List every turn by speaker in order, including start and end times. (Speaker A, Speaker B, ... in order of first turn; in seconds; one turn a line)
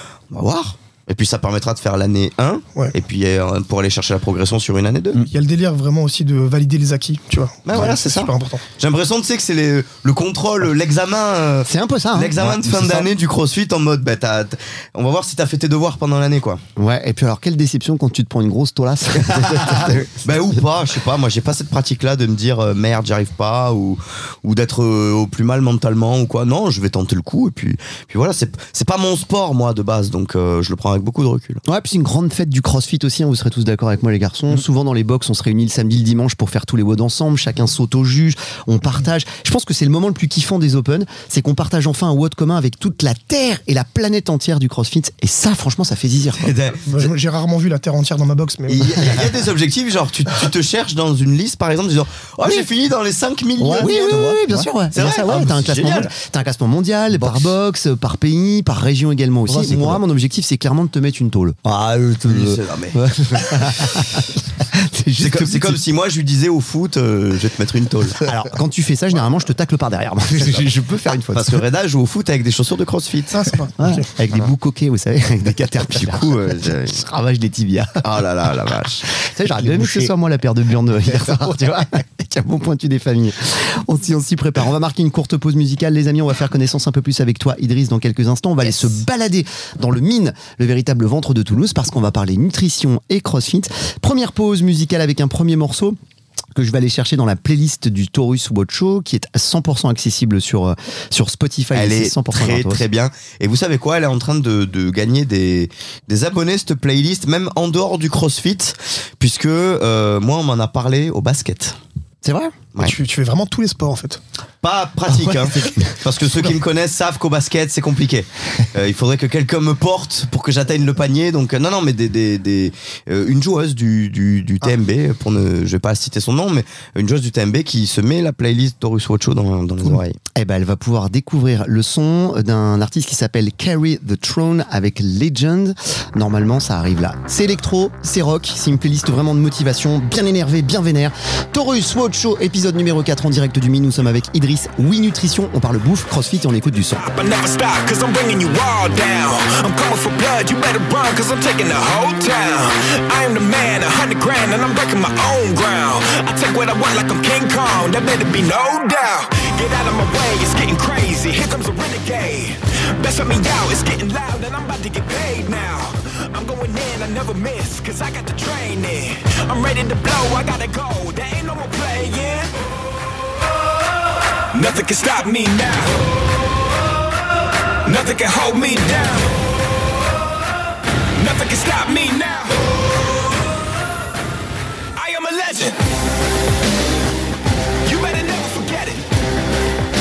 Speaker A: 0.3-5.2
Speaker B: 5.2-8.6
Speaker A: 7.6-16.6
Speaker C: 11.7-12.3
Speaker D: 12.4-13.1
Speaker C: 16.8-20.1
Speaker A: 19.3-31.6
Speaker C: 31.6-46.5
Speaker A: 46.4-47.1
Speaker B: 46.9-49.1
Speaker A: 48.7-54.3
Speaker D: 53.6-55.3
Speaker C: 53.6-61.7
Speaker A: 54.9-56.1
Speaker D: 59.5-60.0
Speaker D: 61.6-62.6
Speaker A: 62.2-63.0
Speaker C: 62.9-65.8
Speaker A: 65.2-68.2
Speaker C: 68.2-71.6
Speaker A: 70.4-70.7
Speaker A: 71.3-73.5
Speaker B: 73.3-74.1
Speaker C: 73.8-78.0
Speaker A: 76.0-76.9
Speaker A: 78.0-79.0
Speaker C: 79.2-96.0
Speaker D: 79.6-80.1
Speaker C: 96.5-102.8
Speaker A: 101.7-111.8
Speaker C: 112.2-112.5
Speaker B: 112.8-114.2
Speaker A: 114.6-130.2
Speaker C: 115.3-115.8
Speaker C: 129.8-147.0
Speaker E: 146.8-172.5
Speaker E: 174.5-176.0
Speaker E: 177.8-179.3
Speaker E: 181.2-182.6
Speaker E: 184.9-185.8
Speaker E: 187.8-189.1